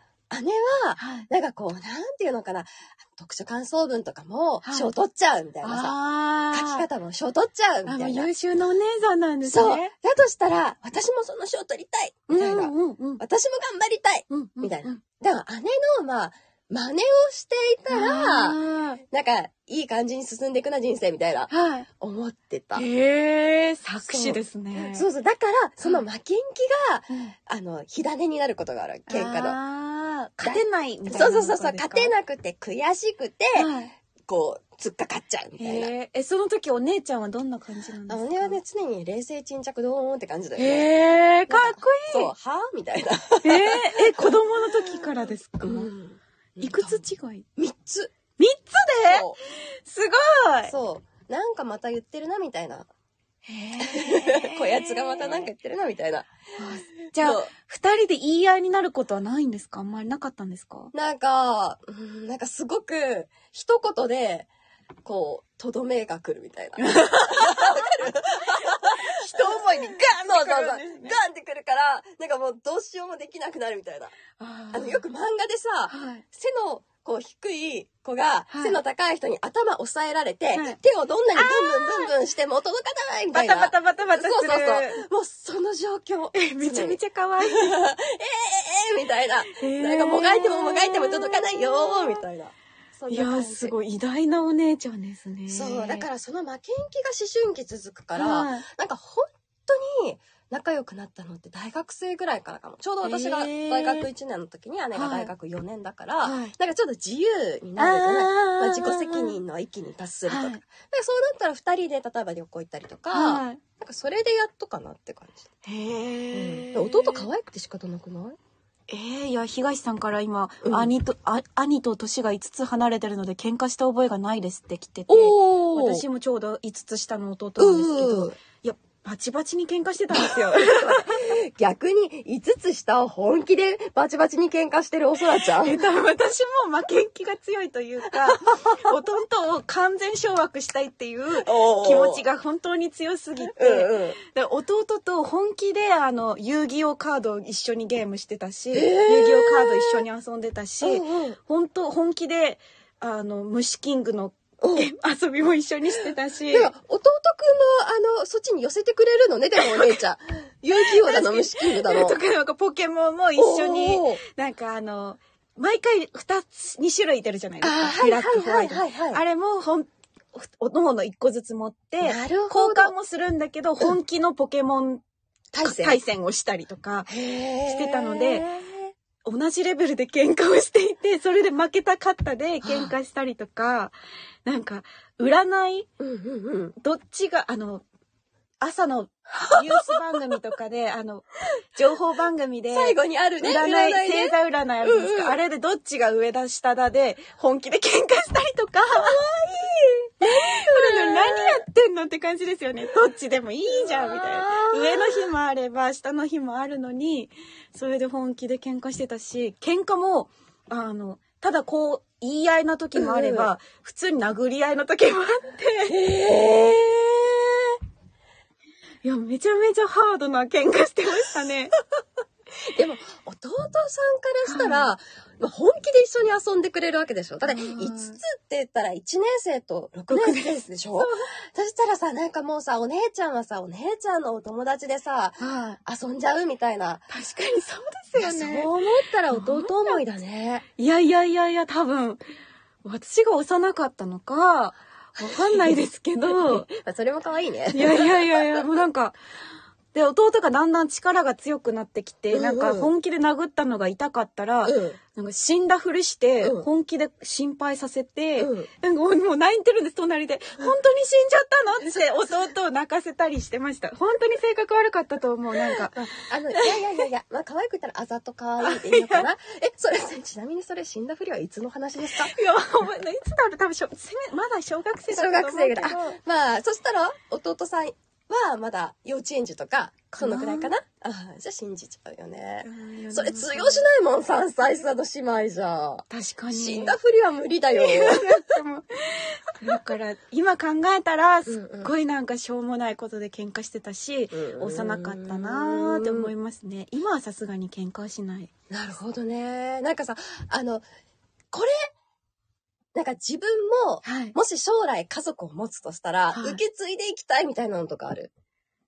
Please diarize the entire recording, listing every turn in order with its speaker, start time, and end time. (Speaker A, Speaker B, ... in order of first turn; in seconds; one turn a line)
Speaker A: 0.3-6.0
Speaker B: 1.0-1.3
Speaker B: 4.6-4.9
Speaker B: 5.6-6.9
Speaker A: 6.5-8.3
Speaker B: 7.9-9.9
Speaker A: 9.4-18.6
Speaker B: 12.3-13.2
Speaker B: 14.3-15.0
Speaker B: 17.9-19.0
Speaker A: 19.1-22.9
Speaker B: 21.5-21.9
Speaker B: 22.8-25.1
Speaker A: 24.0-29.6
Speaker B: 29.1-32.1
Speaker A: 30.4-33.7
Speaker B: 33.6-33.9
Speaker A: 34.3-35.9
Speaker B: 35.6-38.6
Speaker A: 38.1-40.9
Speaker B: 40.6-42.3
Speaker A: 41.5-44.0
Speaker B: 43.4-45.9
Speaker A: 45.6-47.0
Speaker B: 46.6-47.5
Speaker A: 47.6-48.1
Speaker B: 48.4-49.3
Speaker A: 49.0-49.4
Speaker B: 49.9-50.7
Speaker A: 50.7-52.9
Speaker B: 53.5-55.5
Speaker A: 53.8-56.3
Speaker B: 56.6-60.9
Speaker A: 57.2-57.5
Speaker A: 60.9-64.5
Speaker A: 65.0-74.2
Speaker B: 67.0-67.7
Speaker B: 68.6-71.2
Speaker B: 74.4-75.0
Speaker A: 74.7-93.7
Speaker B: 75.9-76.2
Speaker B: 78.5-78.8
Speaker B: 81.3-82.1
Speaker B: 83.3-85.0
Speaker B: 86.3-87.8
Speaker B: 89.5-92.2
Speaker B: 93.1-96.1
Speaker A: 95.5-115.5
Speaker B: 98.2-98.7
Speaker B: 103.0-104.1
Speaker B: 104.9-105.3
Speaker B: 106.2-106.5
Speaker B: 107.8-109.4
Speaker B: 110.3-110.6
Speaker B: 113.1-113.6
Speaker B: 115.7-117.3
Speaker A: 116.3-118.4
Speaker B: 118.9-131.1
Speaker A: 120.6-120.9
Speaker A: 125.1-126.0
Speaker A: 127.6-128.4
Speaker A: 130.2-135.8
Speaker B: 135.4-156.7
Speaker A: 141.4-142.2
Speaker A: 143.6-144.2
Speaker A: 148.7-150.0
Speaker A: 150.8-151.4
Speaker A: 154.6-154.9
Speaker A: 156.5-162.2
Speaker B: 159.6-160.0
Speaker B: 160.9-175.0
Speaker A: 163.4-164.2
Speaker A: 167.6-169.2
Speaker A: 172.0-172.9
Speaker A: 175.5-176.0
Speaker B: 175.6-177.1
Speaker A: 177.1-178.9
Speaker B: 177.7-178.5
Speaker B: 179.2-183.9
Speaker A: 182.6-182.9
Speaker B: 184.4-185.9
Speaker A: 186.0-186.8
Speaker B: 186.8-187.8
Speaker B: 188.6-199.2
Speaker A: 192.7-195.4
Speaker A: 198.9-201.6
Speaker B: 200.2-216.0
Speaker A: 203.7-205.3
Speaker A: 213.0-213.5
Speaker A: 215.9-217.8
Speaker B: 219.0-221.7
Speaker A: 222.8-237.1
Speaker B: 224.5-224.9
Speaker B: 227.4-228.2
Speaker B: 230.1-231.3
Speaker B: 235.4-235.8
Speaker B: 237.1-238.7
Speaker A: 238.2-240.7
Speaker B: 239.3-240.0
Speaker B: 240.8-242.2
Speaker B: 242.8-246.7
Speaker A: 245.2-248.8
Speaker B: 247.7-249.2
Speaker B: 249.9-266.8
Speaker A: 252.3-252.9
Speaker A: 254.7-255.0
Speaker A: 256.4-256.7
Speaker A: 258.4-258.7
Speaker A: 266.0-272.3
Speaker B: 268.6-269.3
Speaker B: 272.2-276.2
Speaker A: 275.1-288.4
Speaker B: 280.1-280.7
Speaker B: 282.6-283.9
Speaker B: 286.1-287.0
Speaker B: 287.8-298.5
Speaker A: 291.5-291.9
Speaker A: 294.3-296.3
Speaker A: 298.7-300.8
Speaker A: 301.5-301.9
Speaker A: 302.9-308.3
Speaker B: 304.1-304.4
Speaker B: 306.3-306.6